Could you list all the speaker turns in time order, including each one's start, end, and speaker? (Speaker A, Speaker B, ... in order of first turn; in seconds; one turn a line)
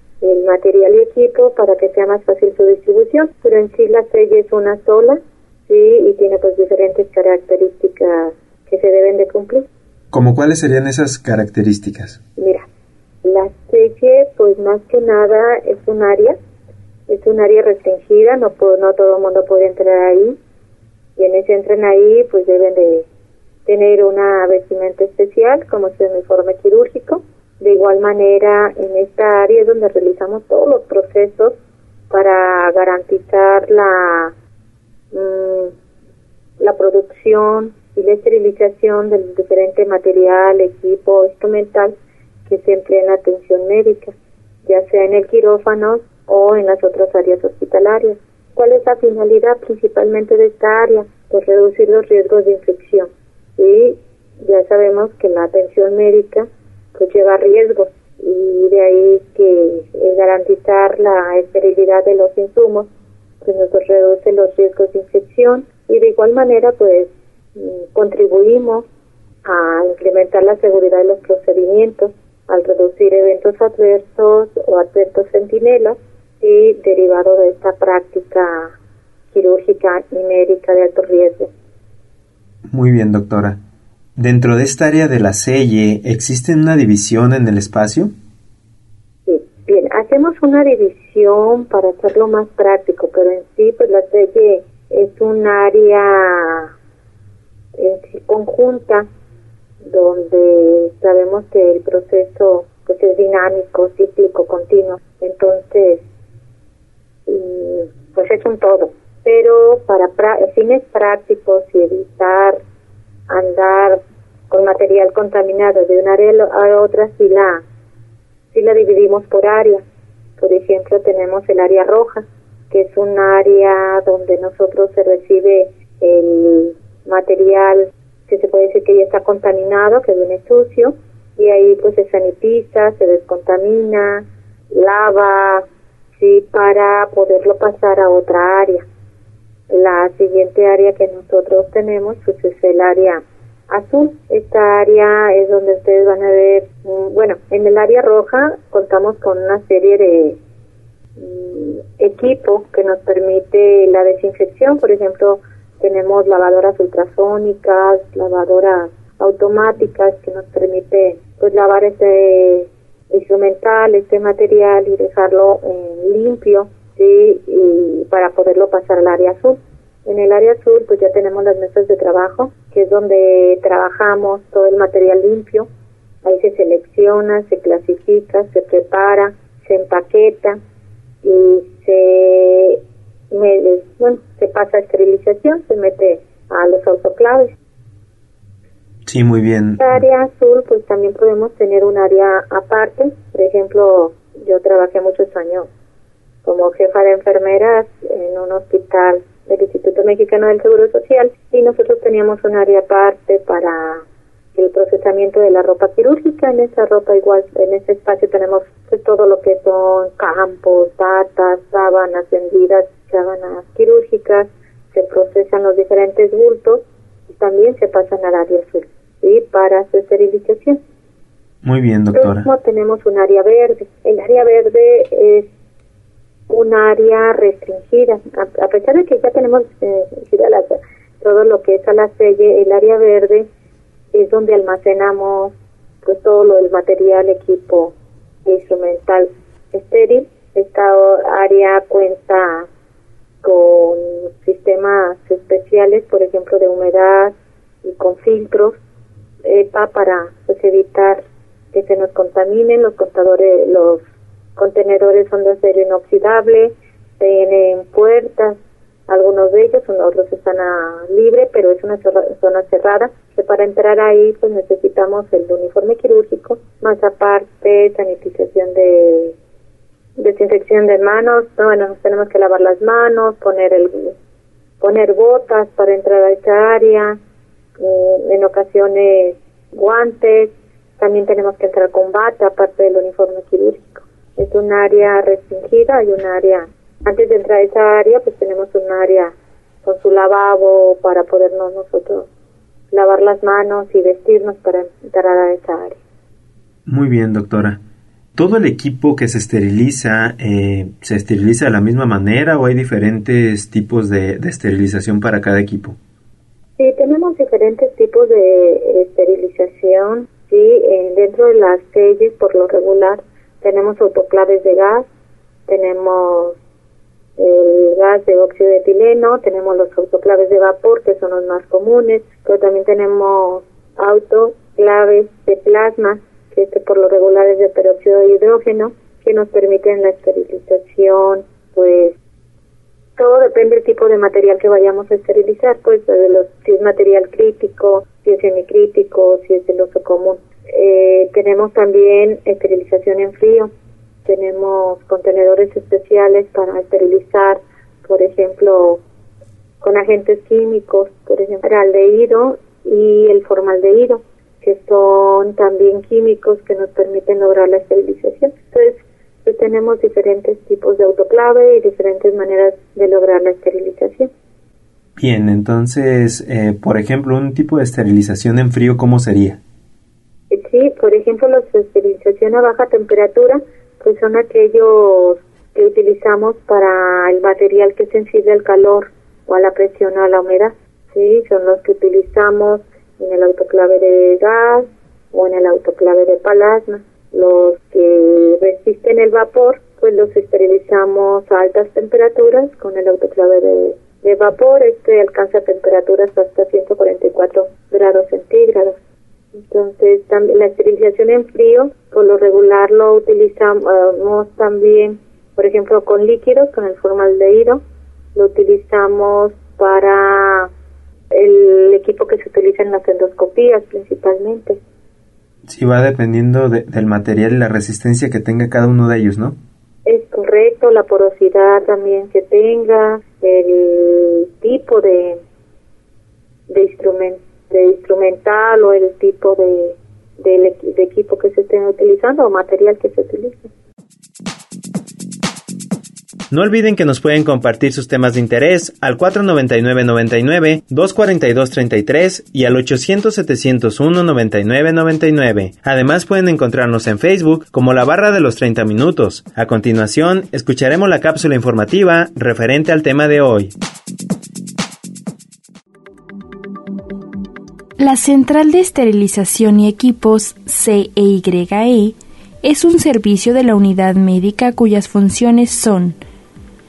Speaker A: 0.2-9.7
Speaker B: 10.1-12.2
Speaker A: 12.4-12.7
Speaker A: 13.2-16.4
Speaker A: 17.1-20.4
Speaker A: 21.2-23.1
Speaker A: 23.7-31.6
Speaker A: 32.1-34.3
Speaker A: 35.1-35.7
Speaker A: 36.6-41.9
Speaker A: 42.5-62.9
Speaker A: 63.4-68.8
Speaker A: 69.5-78.7
Speaker A: 79.3-81.5
Speaker B: 82.7-83.6
Speaker B: 84.2-88.1
Speaker A: 89.3-96.7
Speaker A: 97.8-99.1
Speaker A: 99.8-106.0
Speaker A: 107.3-112.6
Speaker A: 113.3-114.0
Speaker A: 114.5-117.6
Speaker A: 118.5-119.8
Speaker A: 120.4-135.7
Speaker A: 136.2-138.8
Speaker A: 139.7-150.4
Speaker A: 151.2-175.7
Speaker A: 176.2-180.6
Speaker A: 181.2-182.8
Speaker A: 183.3-187.5
Speaker B: 189.1-190.0
Speaker A: 189.8-195.7
Speaker A: 196.4-204.0
Speaker A: 204.6-220.8
Speaker B: 221.6-222.5
Speaker A: 222.1-225.5
Speaker A: 226.5-233.5
Speaker A: 234.1-237.9
Speaker A: 238.4-242.7
Speaker A: 243.4-248.8
Speaker A: 249.5-251.2
Speaker A: 251.7-254.0
Speaker A: 254.6-269.4
Speaker A: 270.2-274.1
Speaker A: 274.8-277.2
Speaker A: 277.8-292.3
Speaker A: 292.9-296.0
Speaker B: 296.9-297.8
Speaker B: 298.4-306.0
Speaker A: 306.8-315.1
Speaker A: 315.7-316.6
Speaker A: 317.4-332.1
Speaker A: 333.2-343.7
Speaker A: 344.2-349.0
Speaker A: 349.8-364.3
Speaker B: 365.2-369.6
Speaker A: 370.5-399.0
Speaker A: 399.7-407.8
Speaker A: 408.4-410.7
Speaker A: 411.3-414.8
Speaker B: 415.7-419.6
Speaker A: 420.1-425.4
Speaker A: 426.7-433.7
Speaker B: 436.5-453.7
Speaker C: 458.0-466.2